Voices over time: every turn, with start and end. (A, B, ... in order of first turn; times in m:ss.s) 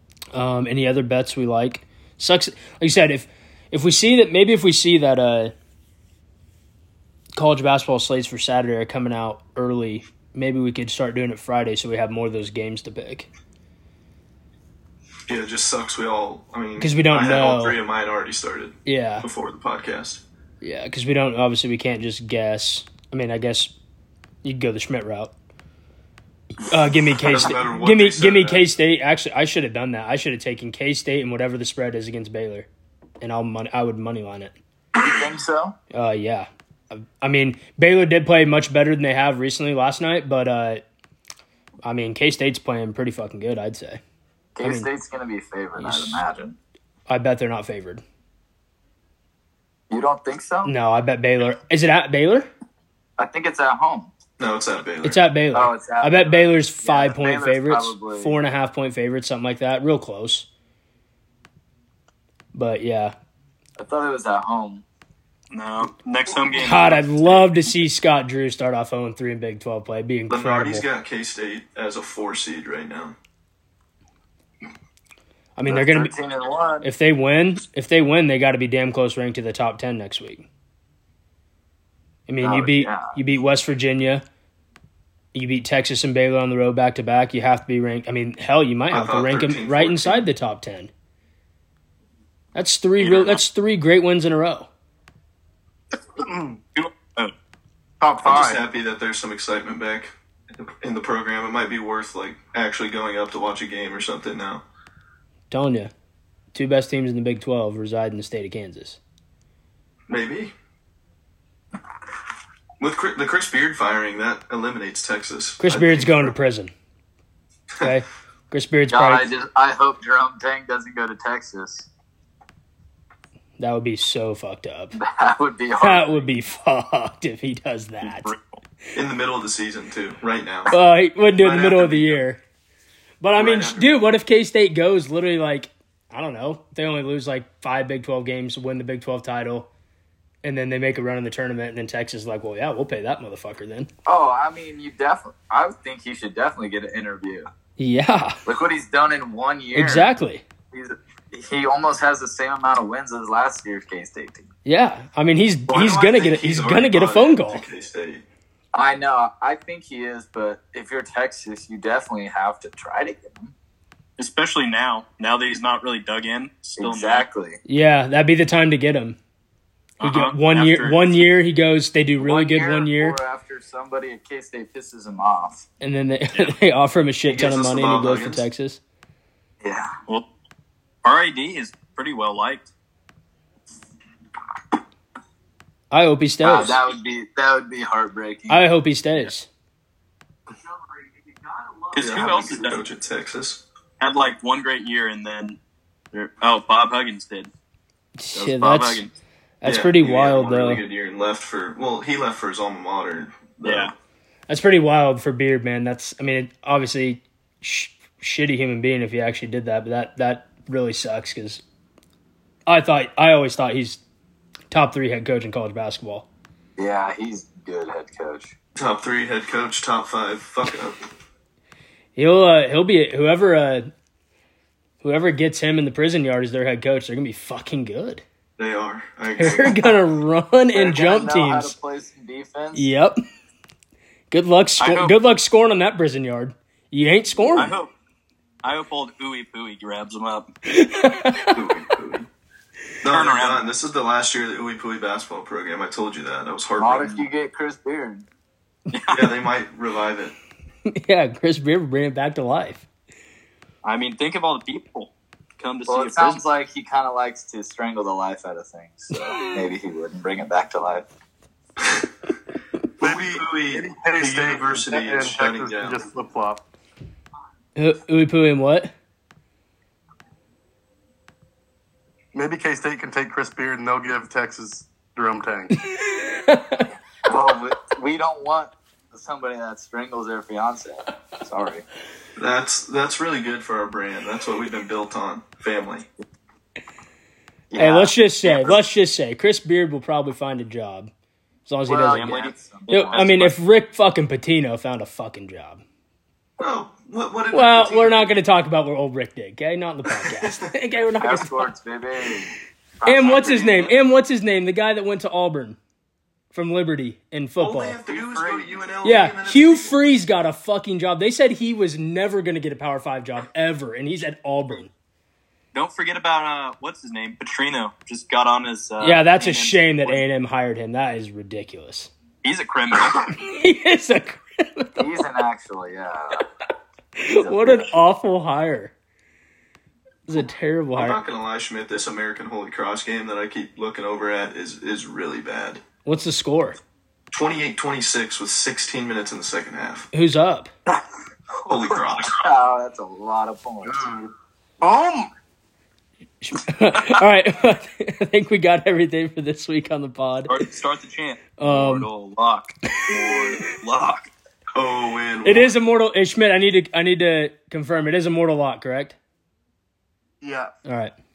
0:00.3-0:05.5 A
0:07.4-0:13.3 A
0:15.3-0:20.2 B
0:16.8-0:17.8 A
0:18.8-0:19.3 A
0:20.6-0:23.7 A
0:24.4-0:25.3 A
0:26.6-0:32.7 A
0:27.1-0:28.7 B
0:33.2-0:34.6 A
0:35.0-0:35.8 C
0:35.9-0:40.8 A
0:41.8-0:44.0 A
0:44.6-0:46.6 C
0:44.6-0:44.9 A
0:45.8-0:46.2 A
0:47.1-0:48.0 A
0:49.9-0:50.7 C
0:50.6-0:52.5 A
0:53.2-0:54.1 C
0:54.4-0:55.2 B
0:55.0-1:00.5 A
0:55.5-0:58.4 C
1:02.5-1:03.2 A
1:03.8-1:04.8 C
1:05.5-1:07.5 D
1:06.6-1:10.8 A
1:10.3-1:13.2 B
1:15.6-1:16.1 A
1:15.7-1:16.9 C
1:16.8-1:20.5 A
1:22.3-1:24.2 A
1:22.4-1:23.2 C
1:25.3-1:30.9 A
1:28.9-1:30.3 B
1:32.6-1:34.7 A
1:33.0-1:33.4 D
1:36.2-1:36.6 E
1:36.8-1:37.3 D
1:38.0-1:38.6 E
1:38.2-1:44.6 B
1:45.5-1:45.9 A
1:46.5-1:49.0 A
1:50.1-1:50.5 B
1:52.8-1:56.4 B
1:55.6-1:56.7 A
1:57.8-1:59.3 A
1:58.9-2:01.9 C
2:03.6-2:05.0 A
2:05.0-2:06.3 C
2:05.8-2:08.3 A
2:08.0-2:08.6 D
2:09.0-2:10.7 B
2:10.7-2:12.4 A
2:11.4-2:12.2 B
2:13.2-2:19.7 A
2:13.4-2:14.0 B
2:20.4-2:23.9 A
2:24.1-2:27.5 C
2:27.8-2:28.4 A
2:28.4-2:30.1 C
2:29.7-2:30.4 A
2:30.7-2:34.5 C
2:34.7-2:37.6 A
2:35.7-2:38.2 B
2:38.7-2:43.5 C
2:44.2-2:47.3 D
2:46.8-2:47.6 C
2:47.7-2:49.2 A
2:50.0-2:51.2 D
2:50.0-2:53.2 A
2:52.2-2:55.7 C
2:55.8-2:58.8 A
2:57.3-2:58.4 B
2:59.6-2:59.9 C
3:01.0-3:02.7 D
3:05.9-3:06.8 A
3:06.4-3:08.6 C
3:08.5-3:09.5 A
3:11.9-3:12.8 D
3:12.0-3:13.6 B
3:14.0-3:15.6 D
3:16.1-3:17.5 D
3:18.2-3:19.0 A
3:18.3-3:19.1 D
3:19.6-3:20.8 A
3:19.6-3:23.9 B
3:23.6-3:23.9 D
3:24.5-3:31.6 A
3:32.7-3:34.0 A
3:34.7-3:36.3 A
3:36.8-3:38.5 C
3:38.8-3:41.0 B
3:42.2-3:43.9 A
3:45.0-3:48.2 A
3:48.6-3:49.9 B
3:49.4-3:51.7 A
3:50.8-3:52.9 C
3:52.8-3:53.2 A
3:54.3-3:57.7 A
3:54.8-3:55.1 D
3:57.6-3:57.9 D
3:58.6-4:00.5 D
4:00.7-4:01.6 A
4:01.5-4:02.3 B
4:03.0-4:07.3 B
4:03.0-4:03.7 D
4:06.8-4:08.3 C
4:08.9-4:09.4 D
4:09.1-4:10.4 B
4:10.9-4:12.9 A
4:13.8-4:16.4 D
4:15.9-4:21.1 C
4:23.0-4:26.0 B
4:23.0-4:26.6 E
4:27.8-4:28.9 A
4:32.3-4:35.7 E
4:35.8-4:36.9 A
4:37.3-4:41.8 C
4:42.4-4:46.1 B
4:47.7-4:48.7 C
4:47.8-4:51.1 A
4:51.7-4:52.4 A
4:51.9-4:53.2 C
4:52.0-4:53.5 D
4:52.9-4:55.8 A
4:56.6-4:58.4 B
4:57.5-5:01.7 A
5:00.1-5:00.6 B
5:01.2-5:03.9 C
5:03.1-5:05.8 A
5:06.5-5:08.0 A
5:07.6-5:10.0 B
5:08.1-5:08.8 D
5:09.0-5:14.9 A
5:15.7-5:20.2 D
5:19.0-5:22.1 A
5:22.4-5:23.3 D
5:23.1-5:25.2 A
5:25.0-5:26.5 C
5:27.2-5:28.9 A
5:27.4-5:27.9 C
5:30.3-5:31.2 A
5:31.0-5:35.8 B
5:36.0-5:36.8 A
5:37.3-5:40.1 B
5:40.1-5:40.7 A
5:41.7-5:42.4 B
5:41.7-5:44.1 C
5:43.9-5:45.3 E
5:46.4-5:50.6 A
5:50.5-5:54.3 D
5:51.6-5:52.1 A
5:52.9-5:53.6 A
5:54.7-5:55.7 B
5:55.4-5:59.2 A
6:00.4-6:00.7 E
6:00.8-6:01.1 A